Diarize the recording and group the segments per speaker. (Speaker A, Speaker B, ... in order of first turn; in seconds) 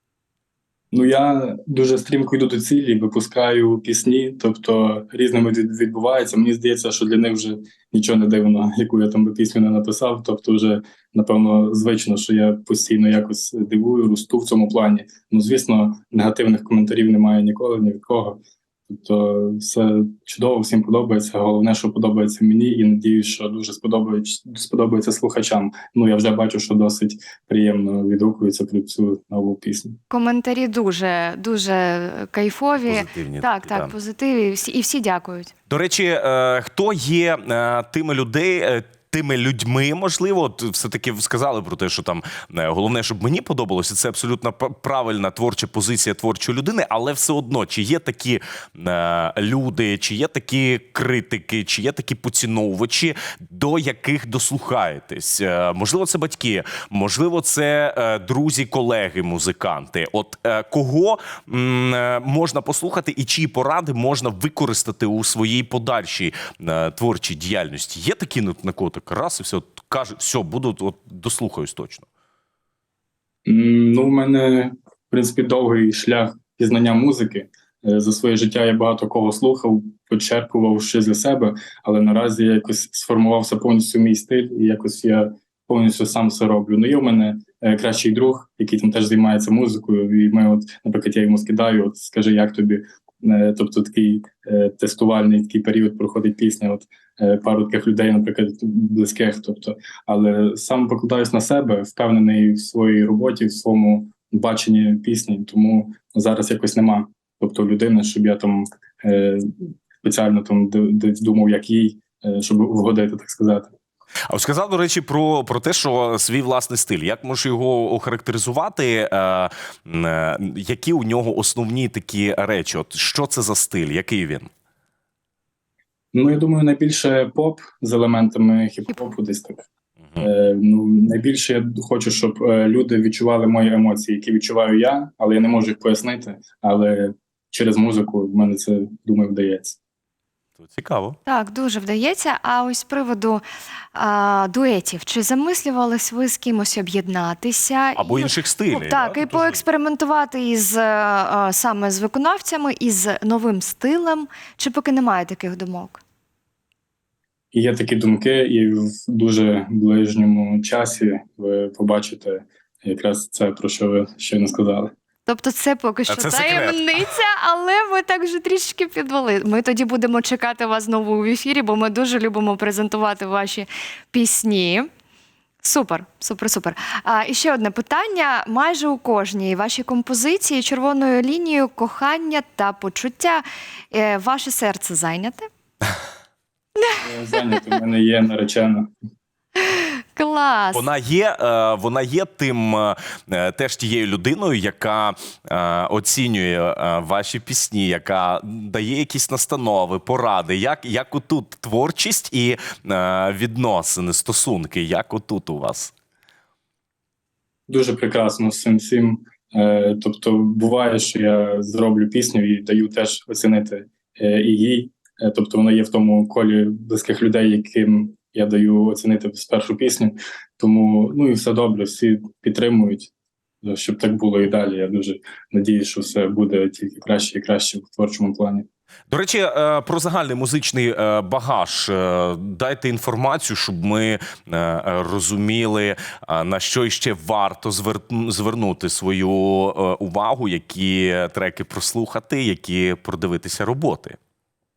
Speaker A: 0.9-30.0, 73.5-113.7, 126.1-129.7, 130.2-139.8, 157.5-164.9, 187.0-188.9, 207.7-223.1, 223.6-228.7
Speaker B: 30.1-35.5, 141.2-143.4, 143.9-156.0, 165.2-174.9, 175.6-185.5, 189.6-190.9
Speaker C: 32.8-33.9, 35.7-72.0, 114.3-124.5, 140.6-141.2, 147.9-149.6, 166.1-167.0, 190.7-205.9, 229.1-244.2